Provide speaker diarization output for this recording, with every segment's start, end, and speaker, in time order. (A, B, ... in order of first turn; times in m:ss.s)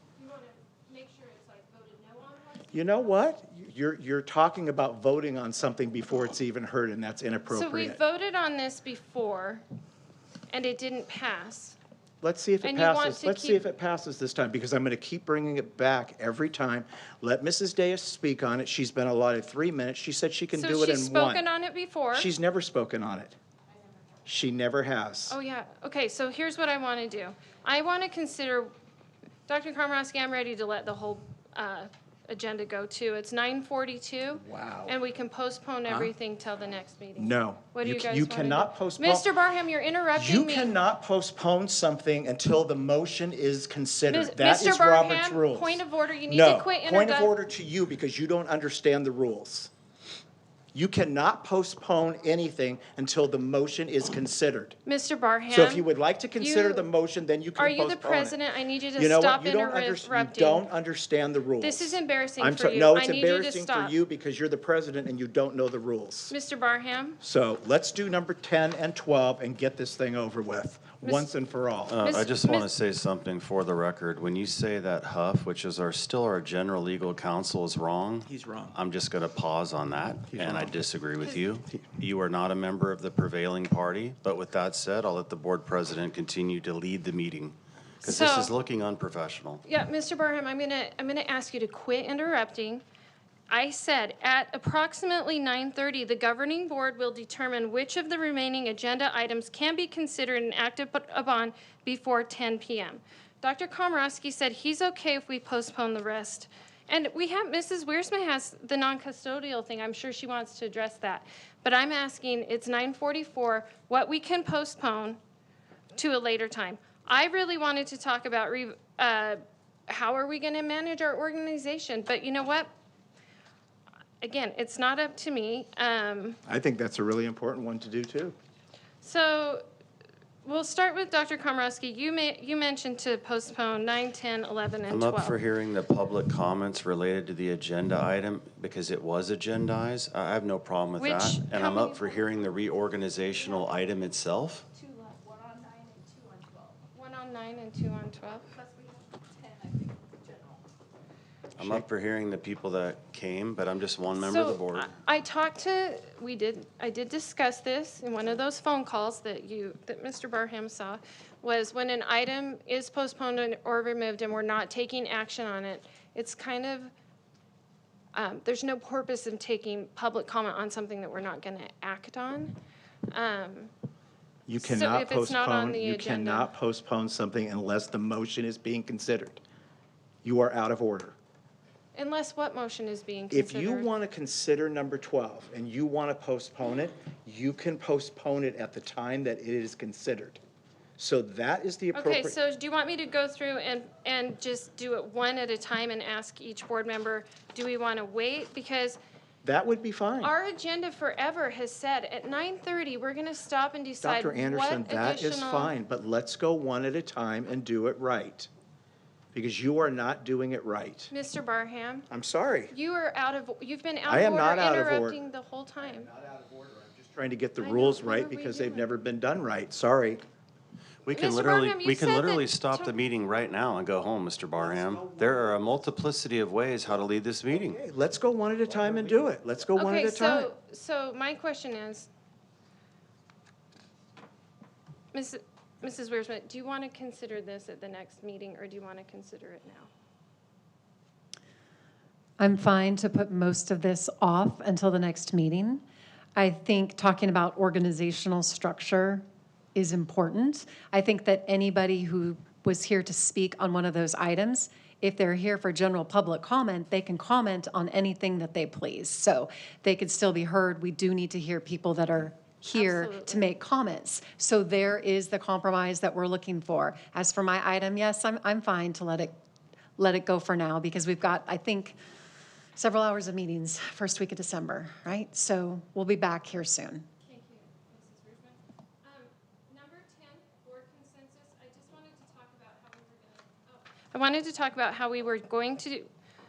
0:00.2-0:03.1 A
0:02.7-0:08.0 B
0:07.5-0:09.6 A
0:10.5-0:11.8 A
0:12.2-0:21.4 B
0:12.6-0:13.6 A
0:20.5-0:22.3 A
0:22.1-0:23.4 B
0:24.2-0:25.4 B
0:25.3-0:28.7 A
0:29.5-0:40.8 A
0:34.4-0:34.9 B
0:35.9-0:36.1 B
0:37.2-0:39.3 B
0:40.2-0:49.7 B
0:44.1-0:47.3 A
0:50.7-0:54.8 B
0:54.8-0:55.9 A
0:55.5-0:58.4 B
0:56.4-0:56.9 A
0:57.6-1:00.6 A
0:59.0-1:06.3 B
1:01.6-1:03.9 A
1:06.3-1:07.2 A
1:07.2-1:12.2 B
1:11.0-1:11.3 A
1:11.9-1:29.6 C
1:12.0-1:12.7 A
1:18.2-1:18.7 B
1:20.3-1:20.8 B
1:28.0-1:28.5 A
1:29.6-1:32.8 A
1:33.5-1:55.2 A
1:55.9-2:02.7 A
2:04.2-2:06.4 A
2:06.5-2:08.4 B
2:09.0-2:09.6 A
2:10.4-2:15.4 A
2:14.9-2:24.7 C
2:21.0-2:22.3 A
2:24.8-2:26.8 D
2:26.9-2:28.5 A
2:28.6-2:30.6 D
2:31.6-2:34.9 C
2:31.6-2:31.8 B
2:34.1-2:46.9 A
2:48.1-2:52.6 A
2:53.1-2:53.7 A
2:54.5-2:59.4 B
2:54.6-2:56.5 A
3:00.2-3:01.2 B
3:01.9-3:03.9 A
3:03.3-3:10.4 B
3:11.0-3:12.4 B
3:11.9-3:19.0 A
3:19.4-3:20.3 B
3:20.2-3:25.7 A
3:24.0-3:28.5 B
3:29.3-3:31.1 B
3:31.1-3:32.1 A
3:32.1-3:32.7 B
3:32.7-3:36.1 A
3:34.0-3:35.2 B
3:35.8-3:40.2 B
3:37.6-3:39.0 A
3:41.0-3:47.8 C
3:41.1-3:42.9 A
3:44.5-3:45.6 B
3:47.5-3:50.5 B
3:49.7-3:52.1 A
3:55.1-3:59.9 A
4:02.4-4:05.8 E
4:06.4-4:29.3 E
4:22.7-4:23.4 A
4:30.0-4:32.0 E
4:32.8-4:37.0 E
4:37.2-4:46.1 A